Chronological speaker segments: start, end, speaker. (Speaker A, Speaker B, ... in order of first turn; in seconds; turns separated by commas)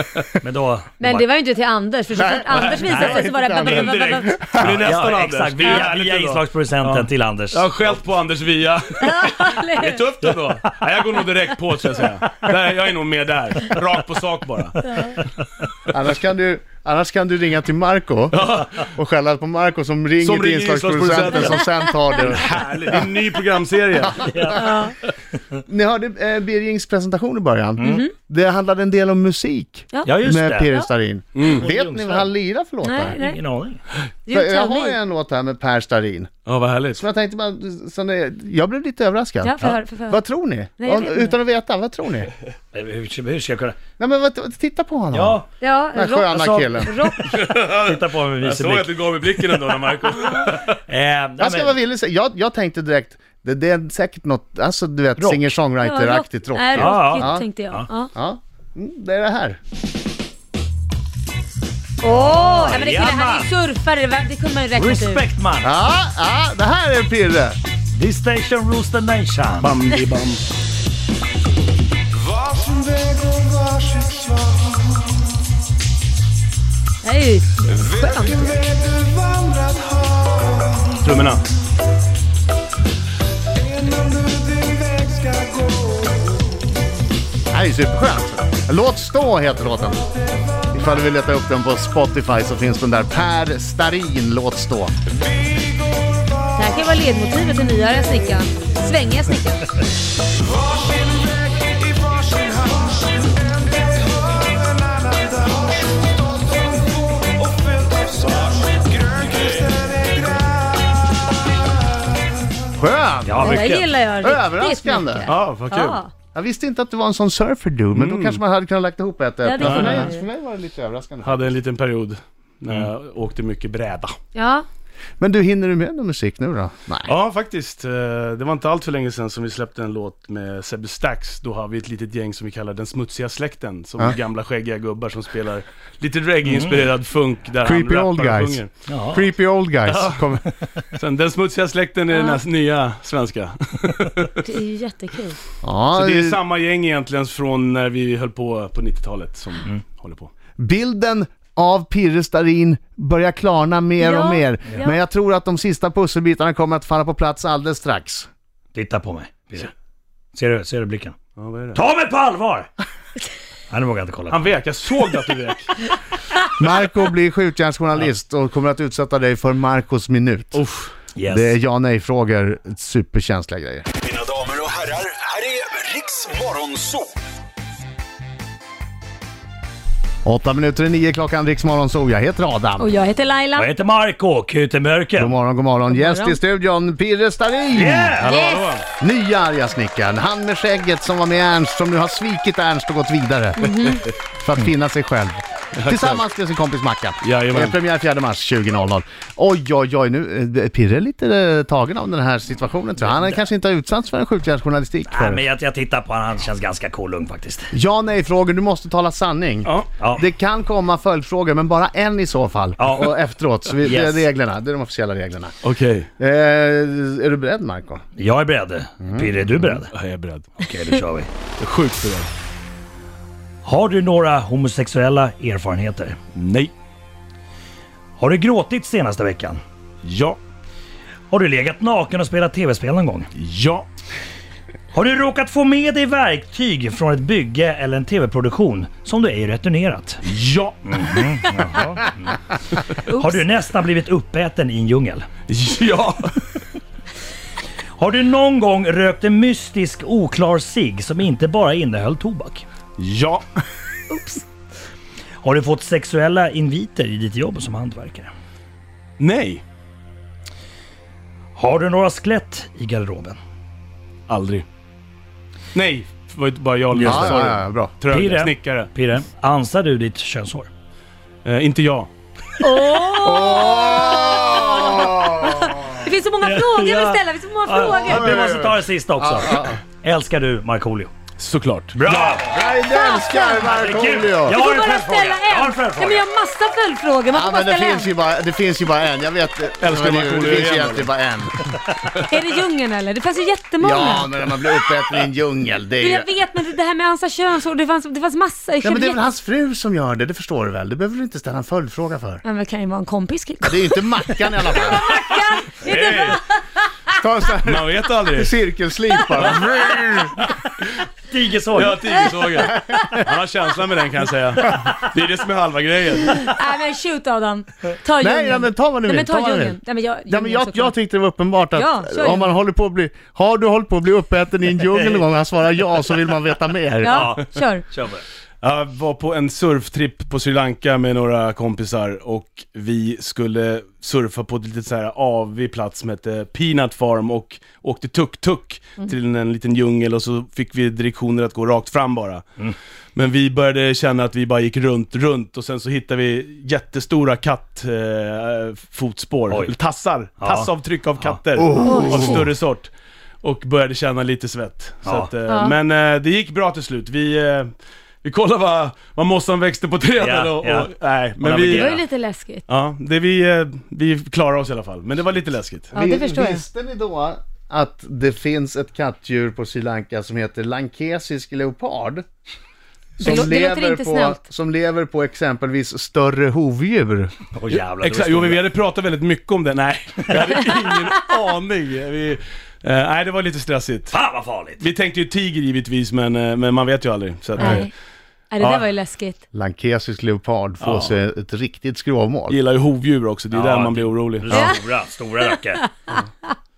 Speaker A: 0.4-1.3, Speaker B: 1.0-4.4, Speaker C: 2.1-4.9, Speaker D: 2.5-3.1, Speaker A: 2.9-3.2, Speaker D: 3.6-14.8, Speaker A: 4.6-7.7, Speaker B: 9.0-10.0, Speaker B: 14.9-15.2, Speaker C: 15.9-23.0, Speaker D: 18.3-18.9, Speaker D: 20.2-21.6, Speaker D: 22.2-24.7, Speaker C: 24.1-24.8, Speaker A: 24.2-24.6, Speaker B: 24.6-24.9, Speaker C: 25.6-33.1, Speaker B: 27.8-28.1, Speaker A: 30.1-30.7, Speaker D: 31.3-31.6, Speaker A: 31.5-32.3, Speaker B: 32.8-33.4, Speaker A: 33.0-33.8, Speaker B: 34.3-34.9, Speaker C: 34.3-36.3, Speaker D: 36.5-37.0, Speaker C: 37.0-39.5, Speaker B: 39.4-40.2, Speaker C: 40.1-42.3, Speaker B: 40.8-41.3, Speaker A: 42.7-43.8, Speaker C: 44.0-45.4, Speaker A: 45.1-45.5, Speaker B: 45.6-47.2, Speaker C: 45.9-47.0, Speaker A: 46.3-48.9, Speaker D: 47.3-50.8, Speaker A: 50.9-51.8, Speaker C: 51.4-57.5, Speaker A: 55.2-55.5, Speaker B: 55.8-58.1, Speaker A: 56.7-57.9, Speaker C: 58.1-59.6, Speaker B: 62.0-65.2, Speaker A: 62.2-63.5, Speaker A: 64.8-65.7, Speaker C: 65.6-67.6, Speaker A: 67.9-69.8, Speaker D: 69.6-70.4, Speaker D: 72.5-74.6, Speaker B: 77.0-78.6, Speaker D: 78.5-79.9, Speaker D: 80.8-81.4, Speaker D: 83.8-86.0, Speaker C: 87.5-90.0, Speaker C: 90.7-94.9, Speaker B: 96.5-99.7, Speaker C: 112.7-115.3, Speaker A: 113.2-113.8, Speaker B: 113.4-116.1, Speaker D: 115.3-116.0, Speaker C: 116.3-121.5, Speaker D: 117.9-118.4, Speaker B: 119.4-120.2, Speaker D: 119.6-120.1, Speaker D: 121.2-124.2, Speaker B: 124.3-124.6, Speaker C: 125.2-127.1, Speaker D: 127.1-138.7, Speaker A: 136.5-136.9, Speaker C: 137.6-138.6, Speaker A: 138.9-139.3, Speaker C: 139.1-140.4, Speaker D: 139.9-140.2, Speaker D: 140.9-144.4, Speaker B: 144.4-145.4, Speaker C: 145.6-146.4, Speaker D: 145.9-150.3, Speaker C: 150.6-158.3, Speaker B: 154.0-154.9, Speaker A: 158.7-159.7, Speaker A: 160.3-161.1, Speaker D: 161.4-161.8, Speaker A: 161.7-162.7, Speaker A: 163.7-164.4, Speaker D: 164.3-165.8, Speaker C: 166.6-170.6, Speaker D: 170.5-170.9, Speaker A: 171.1-171.6, Speaker C: 171.2-173.9, Speaker E: 174.3-176.8, Speaker D: 174.8-175.4, Speaker D: 176.0-176.9, Speaker C: 180.2-182.9, Speaker B: 182.8-183.7, Speaker A: 183.6-185.3, Speaker C: 185.2-188.1, Speaker B: 185.9-186.4, Speaker A: 187.7-188.3, Speaker D: 188.2-188.8, Speaker B: 188.2-188.7, Speaker C: 189.0-205.4, Speaker B: 193.6-194.0, Speaker D: 193.8-194.1, Speaker D: 195.8-196.2, Speaker D: 197.2-197.7, Speaker A: 205.0-207.7, Speaker C: 207.7-215.5, Speaker D: 209.6-209.9, Speaker A: 210.0-210.3, Speaker A: 212.8-213.1, Speaker A: 213.8-214.3, Speaker D: 215.6-216.1, Speaker C: 216.2-218.0, Speaker A: 218.2-219.9, Speaker C: 219.0-219.8, Speaker D: 219.9-220.6, Speaker A: 220.6-221.3, Speaker D: 221.6-222.3, Speaker A: 223.6-226.2, Speaker D: 226.3-226.7, Speaker A: 228.2-229.6, Speaker D: 230.0-230.4, Speaker A: 231.3-233.3, Speaker D: 233.3-233.9, Speaker A: 234.9-240.2, Speaker D: 240.2-241.2, Speaker A: 240.8-242.4, Speaker B: 243.1-243.4, Speaker A: 243.1-245.3, Speaker D: 245.5-246.4, Speaker A: 247.9-252.7, Speaker D: 253.0-253.4, Speaker B: 254.1-254.4, Speaker A: 255.4-258.3, Speaker D: 259.2-259.6, Speaker A: 261.6-263.4, Speaker D: 264.3-264.6, Speaker D: 265.7-268.9, Speaker A: 266.9-267.4, Speaker C: 267.0-267.9, Speaker A: 268.1-270.7, Speaker D: 271.4-272.1, Speaker B: 272.6-278.3, Speaker C: 273.2-275.9, Speaker A: 276.4-281.1, Speaker C: 278.0-279.8, Speaker D: 281.4-282.3, Speaker A: 281.9-282.7, Speaker C: 282.1-284.6, Speaker B: 282.6-283.8, Speaker A: 283.7-286.2, Speaker B: 284.5-288.1, Speaker C: 287.3-291.6, Speaker D: 289.8-291.1, Speaker B: 292.3-294.3, Speaker C: 293.8-296.3, Speaker B: 296.0-299.2, Speaker C: 298.8-302.4, Speaker B: 302.4-306.6, Speaker C: 303.6-305.2, Speaker D: 305.8-306.4, Speaker C: 307.1-310.4, Speaker D: 307.6-308.5, Speaker A: 310.4-310.7, Speaker A: 311.3-312.0, Speaker D: 311.7-316.5, Speaker B: 312.2-312.7, Speaker C: 312.6-313.2, Speaker B: 316.3-320.9, Speaker C: 318.2-327.3, Speaker B: 321.7-322.5, Speaker B: 327.0-327.8, Speaker A: 327.1-328.2, Speaker D: 328.6-342.4, Speaker D: 343.1-357.7, Speaker A: 350.4-351.4, Speaker C: 351.6-352.4, Speaker B: 351.8-352.4, Speaker A: 355.0-355.3, Speaker B: 355.5-355.7, Speaker D: 358.2-362.0, Speaker A: 360.2-362.0, Speaker B: 361.6-362.6, Speaker D: 362.7-365.9, Speaker B: 365.9-366.6, Speaker C: 365.9-372.2, Speaker C: 373.2-377.3, Speaker B: 373.2-374.4, Speaker A: 377.5-378.6, Speaker D: 378.0-384.1, Speaker A: 384.1-384.8, Speaker D: 384.8-387.9, Speaker B: 387.6-387.9, Speaker B: 388.5-389.4, Speaker D: 388.6-388.9, Speaker C: 389.5-392.6, Speaker D: 390.8-391.1, Speaker D: 392.5-394.6, Speaker A: 393.5-395.8, Speaker B: 394.5-394.8, Speaker B: 395.4-395.9